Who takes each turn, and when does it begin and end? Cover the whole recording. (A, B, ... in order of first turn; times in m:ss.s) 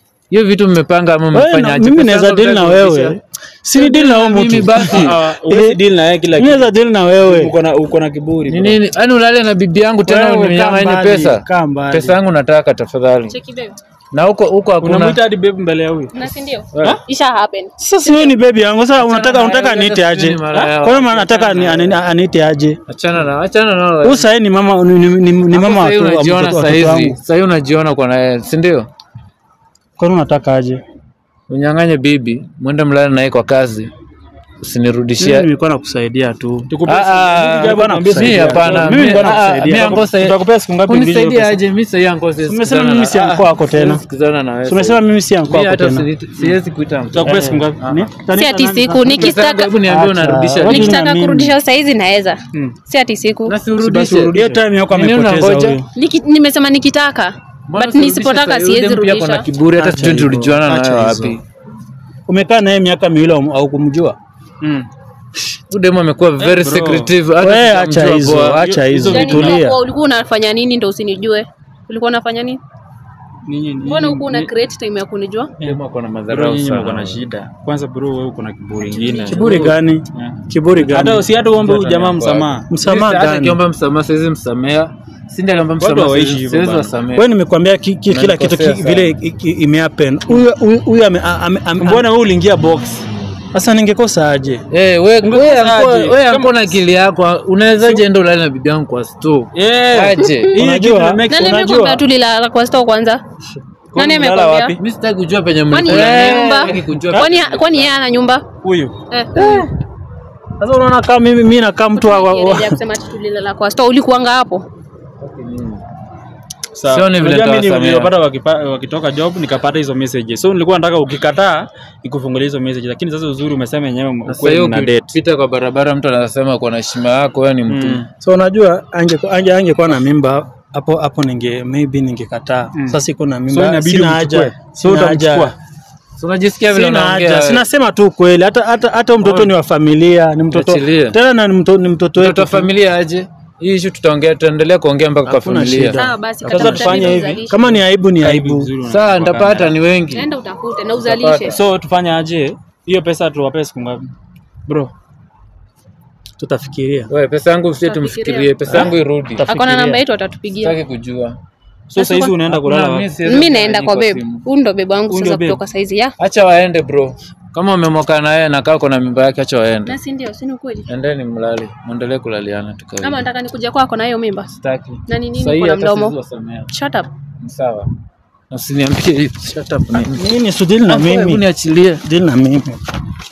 0:00.3-0:03.2 A
0:01.3-0:05.8 B
0:03.7-0:05.2 A
0:04.9-0:08.8 C
0:06.4-0:07.5 B
0:08.5-0:13.4 A
0:10.0-0:12.2 B
0:13.3-0:13.8 D
0:14.1-0:15.2 A
0:14.8-0:16.3 C
0:16.1-0:18.3 D
0:16.7-0:17.0 A
0:17.8-0:22.8 B
0:19.0-0:22.0 A
0:22.9-0:24.3 A
0:24.0-0:27.2 B
0:25.5-0:28.9 A
0:30.0-0:30.8 B
0:31.5-0:33.9 A
0:34.6-0:35.5 A
0:35.2-0:36.7 B
0:36.7-0:41.4 C
0:36.9-0:48.1 A
0:37.5-0:40.1 B
0:40.9-0:41.6 B
0:42.4-0:44.0 B
0:44.6-0:46.1 B
0:47.1-0:47.9 C
0:47.2-0:51.6 B
0:48.3-0:49.8 D
0:49.1-0:51.0 A
0:50.6-0:53.5 D
0:53.5-0:55.8 A
0:53.8-0:55.9 B
0:56.0-0:59.5 D
0:57.7-1:01.4 A
0:59.7-1:01.4 B
1:02.3-1:04.2 B
1:04.6-1:04.9 C
1:05.7-1:08.7 A
1:06.4-1:07.1 C
1:07.4-1:09.8 B
1:08.6-1:09.6 C
1:09.1-1:12.6 D
1:13.5-1:14.5 C
1:13.8-1:15.5 D
1:15.6-1:17.2 A
1:16.3-1:19.7 C
1:18.8-1:19.4 D
1:19.3-1:21.2 B
1:19.4-1:20.4 A
1:20.8-1:22.7 C
1:21.5-1:27.3 A
1:22.7-1:23.6 B
1:25.8-1:26.9 C
1:27.1-1:32.1 B
1:28.1-1:29.1 A
1:31.8-1:33.1 C
1:33.5-1:34.6 B
1:34.7-1:40.6 A
1:35.2-1:36.7 C
1:39.5-1:41.7 C
1:40.6-1:42.0 B
1:41.3-1:43.2 D
1:43.9-1:44.8 C
1:44.0-1:44.8 D
1:44.8-1:48.0 A
1:45.7-1:48.6 D
1:45.9-1:46.6 B
1:48.6-1:49.0 C
1:49.1-1:49.7 D
1:49.4-1:49.7 B
1:50.6-1:52.8 B
1:52.0-1:54.6 D
1:55.2-1:55.8 A
1:56.7-2:05.1 C
1:56.9-1:58.1 A
2:04.3-2:08.0 A
2:07.7-2:08.1 C
2:08.2-2:15.5 B
2:12.8-2:15.6 C
2:16.2-2:17.6 A
2:16.7-2:22.7 B
2:19.2-2:19.5 A
2:20.5-2:21.2 A
2:22.2-2:26.0 A
2:25.3-2:28.7 B
2:25.9-2:27.6 D
2:26.5-2:29.8 C
2:28.9-2:30.3 A
2:30.1-2:31.6 D
2:31.0-2:31.6 A
2:31.5-2:34.1 C
2:36.4-2:37.1 B
2:37.1-2:39.5 A
2:37.8-2:38.9 D
2:38.7-2:40.0 B
2:39.4-2:40.8 D
2:40.6-2:41.4 A
2:41.9-2:43.2 C
2:42.0-2:42.4 D
2:42.5-2:44.4 A
2:43.2-2:46.2 D
2:45.1-2:45.6 C
2:46.2-2:50.0 A
2:49.9-2:50.9 D
2:50.9-2:53.3 A
2:53.0-2:54.5 D
2:54.6-2:56.7 A
2:55.1-2:56.2 D
2:56.7-2:57.1 D
2:57.4-2:57.9 A
2:58.5-3:00.2 A
3:00.1-3:01.4 B
3:00.9-3:02.0 A
3:02.0-3:02.8 B